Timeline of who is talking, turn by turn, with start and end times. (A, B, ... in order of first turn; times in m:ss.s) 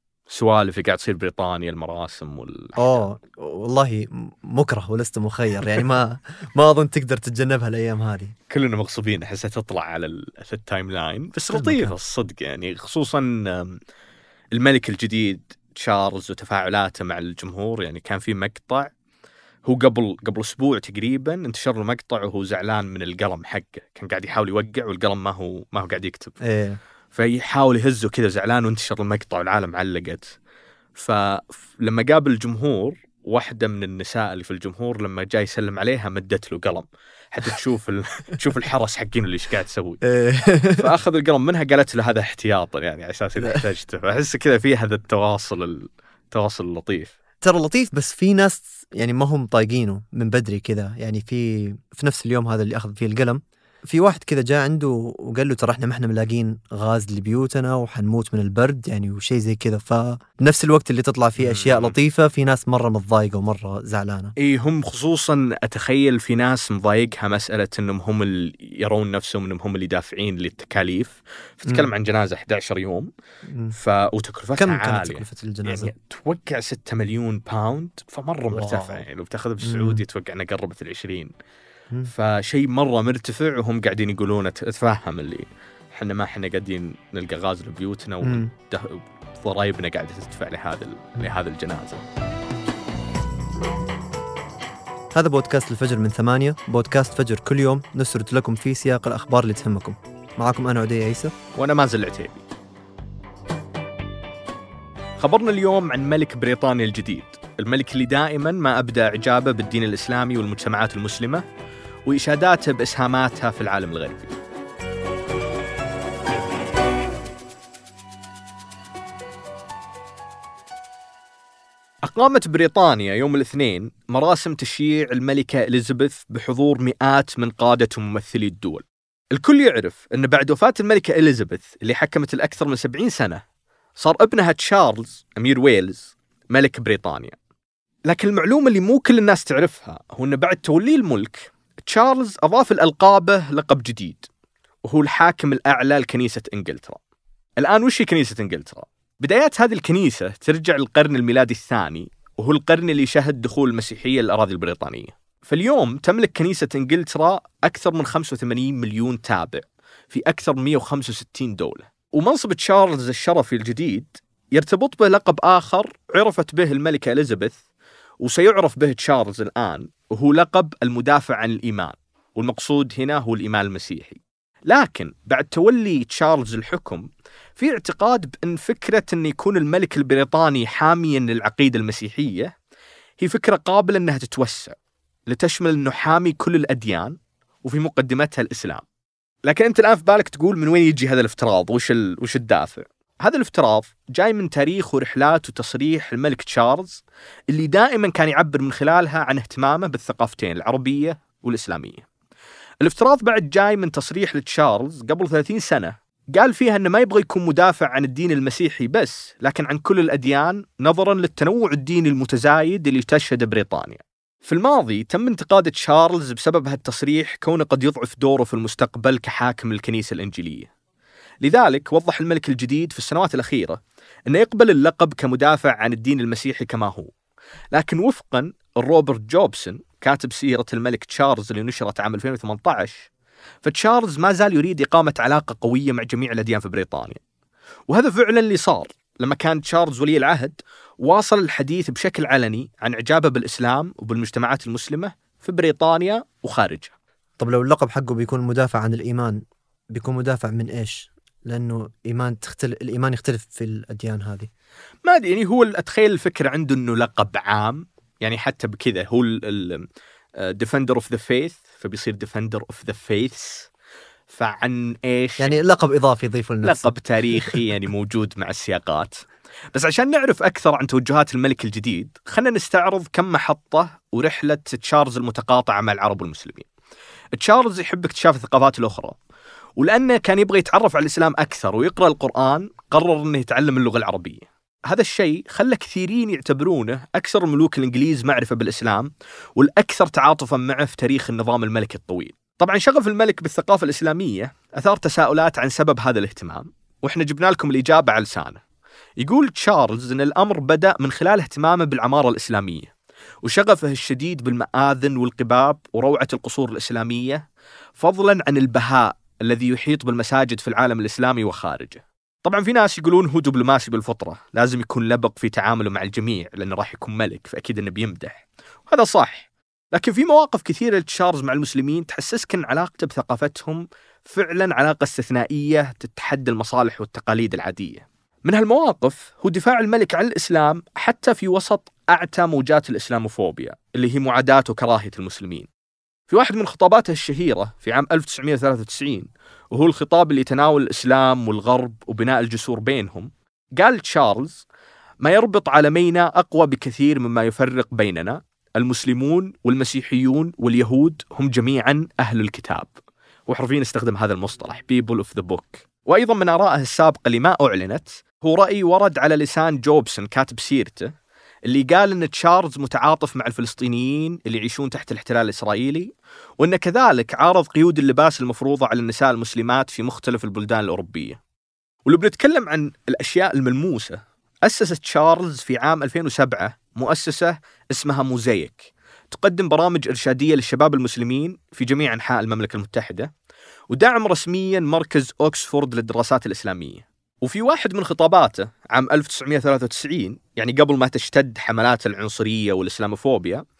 0:00.3-0:03.0 A
0:02.8-0:08.3 B
0:08.5-0:13.8 A
0:11.5-0:12.0 B
0:14.5-0:18.9 A
0:19.6-0:26.4 A
0:26.4-0:26.8 B
0:27.1-0:30.3 A
0:30.9-0:40.0 A
0:40.0-0:40.9 B
0:40.8-0:47.1 A
0:43.4-0:43.6 B
0:47.4-1:04.3 B
1:01.4-1:02.0 A
1:04.4-1:13.1 A
1:13.5-1:13.7 B
1:13.7-1:21.3 A
1:14.6-1:15.9 B
1:18.5-1:19.0 B
1:19.6-1:20.0 B
1:22.1-1:32.0 A
1:28.2-1:28.5 B
1:35.1-1:41.3 B
1:41.5-1:42.4 A
1:45.2-1:51.4 A
1:52.1-1:54.4 A
2:02.0-2:13.4 A
2:14.0-2:17.4 A
2:18.1-2:24.3 A
2:24.8-2:27.0 A
2:27.6-2:47.6 A
2:48.2-3:02.5 A
3:03.2-3:04.7 A
3:05.3-3:08.8 A
3:09.4-3:22.0 A
3:22.8-3:40.7 A
3:41.4-3:47.1 A
3:47.7-3:53.1 A
3:53.6-3:57.2 A
3:57.9-4:06.9 A
4:07.4-4:09.4 B
4:09.9-4:14.5 B
4:15.0-4:23.7 A
4:24.3-4:25.5 A
4:25.4-4:27.7 B
4:26.6-4:36.7 A
4:37.3-4:39.2 A
4:39.8-4:58.6 A
4:59.2-5:02.9 A
5:03.4-5:07.4 A
5:08.0-5:35.7 A
5:36.3-5:44.6 A
5:45.2-5:52.9 A
5:53.5-6:01.1 A
6:01.7-6:11.4 A
6:12.0-6:23.3 A
6:23.9-6:33.6 A